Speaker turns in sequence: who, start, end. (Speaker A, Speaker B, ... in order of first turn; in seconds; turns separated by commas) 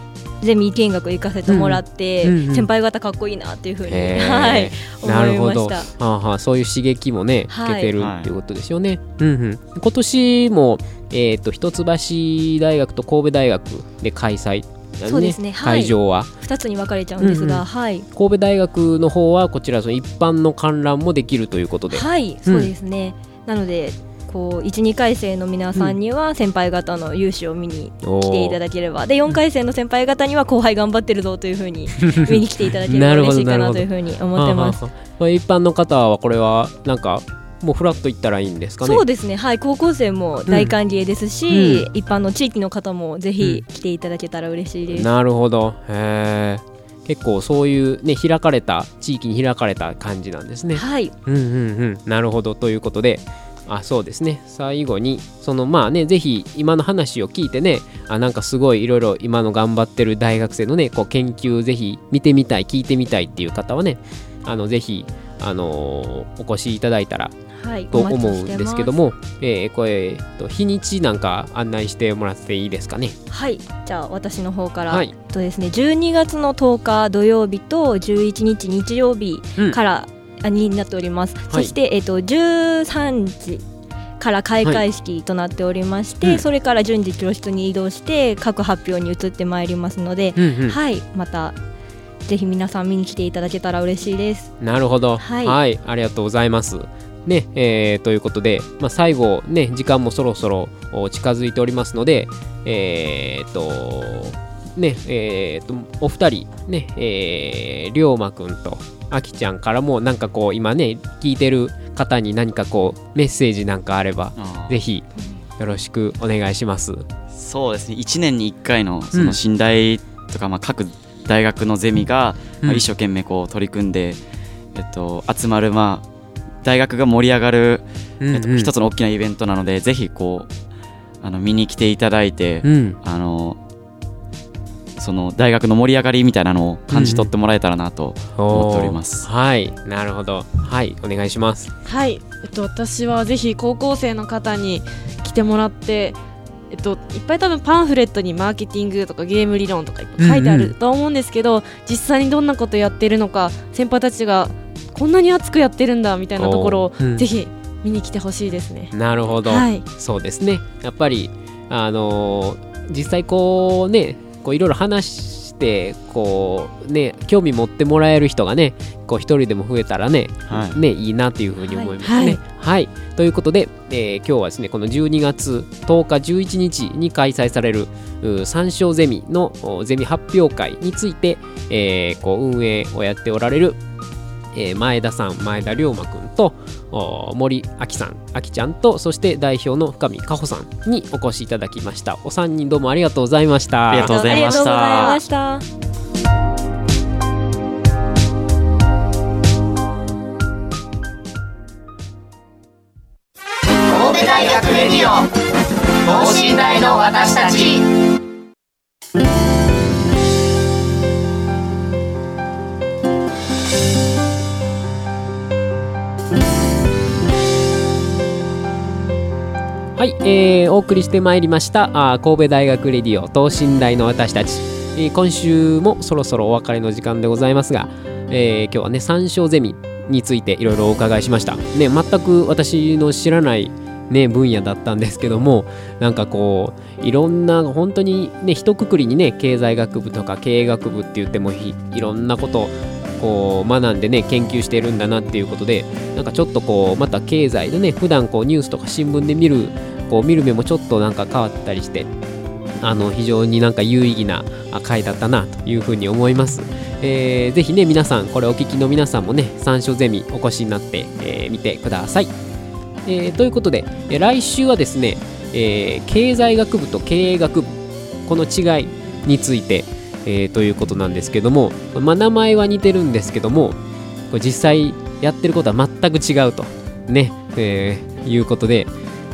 Speaker A: 0.4-5.9, Speaker B: 1.5-2.7, Speaker B: 3.9-16.3, Speaker A: 7.5-7.9, Speaker C: 8.0-8.3, Speaker A: 15.0-18.1, Speaker B: 17.2-22.7, Speaker A: 21.9-34.8, Speaker B: 28.0-28.6, Speaker B: 32.0-39.0, Speaker A: 38.8-45.1, Speaker B: 40.5-40.7, Speaker B: 41.5-41.9, Speaker B: 44.9-67.3, Speaker A: 50.7-51.1, Speaker A: 67.5-69.0, Speaker B: 67.9-73.2, Speaker A: 73.3-83.6, Speaker B: 74.9-75.1, Speaker A: 84.2-91.5, Speaker B: 90.4-90.8, Speaker A: 92.2-94.5, Speaker B: 94.6-115.0, Speaker A: 95.2-95.6, Speaker C: 114.4-114.8, Speaker B: 115.6-117.0, Speaker C: 117.3-124.2, Speaker C: 124.7-126.0, Speaker C: 126.6-130.5, Speaker B: 128.2-128.7, Speaker C: 131.2-133.6, Speaker B: 132.6-133.0, Speaker C: 135.0-139.3, Speaker B: 136.9-137.3, Speaker B: 138.4-141.7, Speaker D: 141.8-146.2, Speaker D: 146.7-158.9, Speaker B: 150.2-150.7, Speaker B: 156.4-157.3, Speaker B: 158.9-183.8, Speaker D: 159.4-159.8, Speaker C: 170.5-170.8, Speaker A: 171.6-172.2, Speaker D: 172.0-172.4, Speaker B: 184.5-194.7, Speaker C: 193.9-195.2, Speaker A: 194.0-195.6, Speaker E: 203.9-205.3, Speaker E: 206.0-207.8, Speaker B: 220.0-252.1, Speaker B: 252.8-262.3, Speaker B: 263.0-273.8, Speaker B: 274.3-278.9